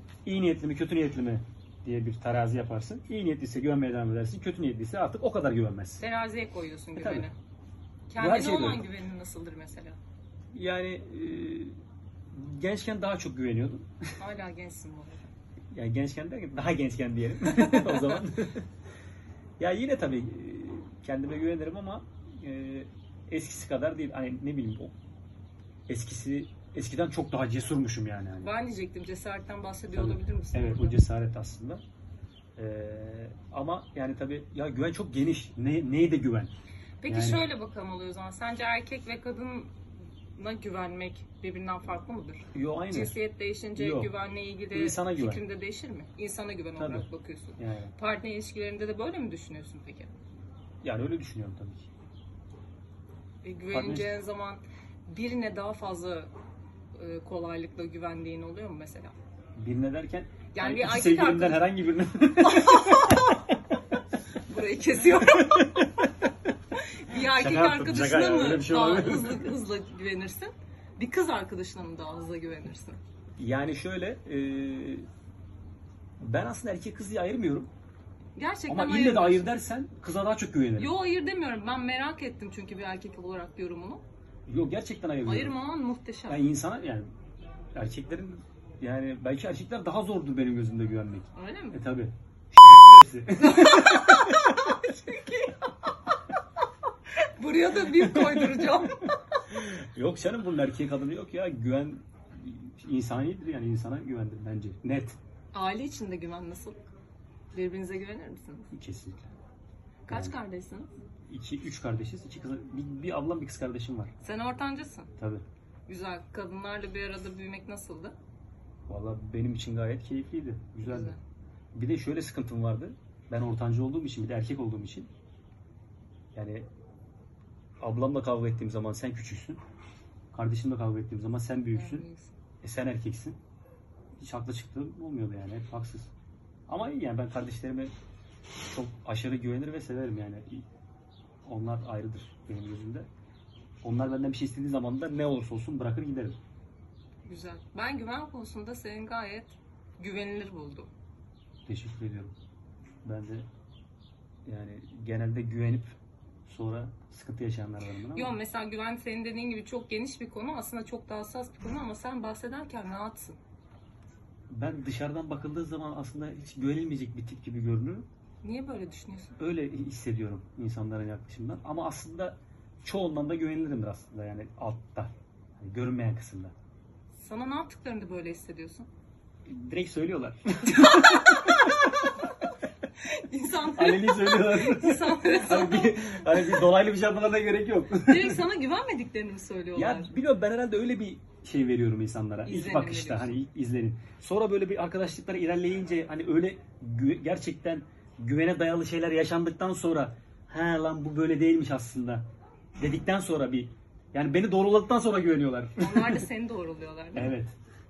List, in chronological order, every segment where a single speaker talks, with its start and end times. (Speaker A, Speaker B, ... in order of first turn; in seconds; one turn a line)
Speaker A: 0.2-6.0
Speaker B: 6.0-7.3
Speaker A: 7.0-7.3
Speaker B: 8.1-10.0
Speaker A: 8.2-8.8
Speaker A: 10.5-11.8
Speaker A: 12.3-13.9
Speaker B: 14.2-15.3
Speaker A: 15.7-18.6
Speaker A: 19.6-24.9
Speaker A: 25.9-28.5
Speaker B: 28.4-31.0
Speaker A: 29.9-31.8
Speaker A: 32.5-36.5
Speaker B: 37.0-39.7
Speaker A: 37.1-37.5
Speaker B: 40.4-50.1
Speaker A: 42.5-43.1
Speaker A: 43.8-44.1
Speaker A: 44.7-45.4
Speaker A: 46.8-47.9
Speaker A: 50.8-51.9
Speaker B: 53.4-56.3
Speaker A: 53.7-54.1
Speaker B: 56.9-59.1
Speaker A: 59.6-63.4
Speaker B: 60.5-61.7
Speaker B: 62.4-63.4
Speaker B: 64.5-65.9
Speaker A: 65.2-65.9
Speaker B: 67.0-73.0
Speaker A: 67.2-69.5
Speaker A: 73.4-75.0
Speaker A: 76.2-77.7
Speaker B: 78.3-79.5
Speaker A: 78.7-80.9
Speaker B: 80.8-84.0
Speaker A: 84.5-85.6
Speaker B: 85.2-86.4
Speaker A: 86.3-87.1
Speaker A: 87.7-94.5
Speaker B: 91.3-91.8
Speaker B: 93.4-95.9
Speaker B: 97.4-99.1
Speaker A: 97.8-98.9
Speaker A: 99.5-105.2
Speaker B: 105.5-106.9
Speaker B: 107.5-108.7
Speaker A: 108.7-109.3
Speaker A: 110.1-110.4
Speaker B: 110.1-110.9
Speaker A: 111.3-114.1
Speaker B: 114.2-115.1
Speaker A: 115.2-115.4
Speaker B: 115.9-118.2
Speaker A: 118.9-121.1
Speaker B: 120.8-121.2
Speaker A: 121.7-125.1
Speaker A: 126.3-126.7
Speaker A: 127.8-129.6
Speaker A: 130.3-132.0
Speaker B: 131.7-132.3
Speaker A: 132.6-133.4
Speaker A: 134.2-136.1
Speaker A: 136.7-137.9
Speaker A: 138.6-140.6
Speaker A: 141.4-143.1
Speaker A: 143.8-146.4
Speaker B: 147.2-150.9
Speaker A: 151.7-152.3
Speaker A: 153.0-153.4
Speaker A: 154.4-158.4
Speaker B: 158.1-163.4
Speaker A: 164.5-168.1
Speaker B: 168.4-169.3
Speaker A: 169.4-176.5
Speaker B: 177.1-178.9
Speaker A: 179.5-182.2
Speaker B: 180.8-181.7
Speaker B: 183.0-186.7
Speaker A: 183.7-188.4
Speaker B: 188.0-190.1
Speaker A: 189.8-202.2
Speaker B: 192.4-193.3
Speaker A: 202.8-206.2
Speaker B: 205.8-207.3
Speaker A: 207.1-207.5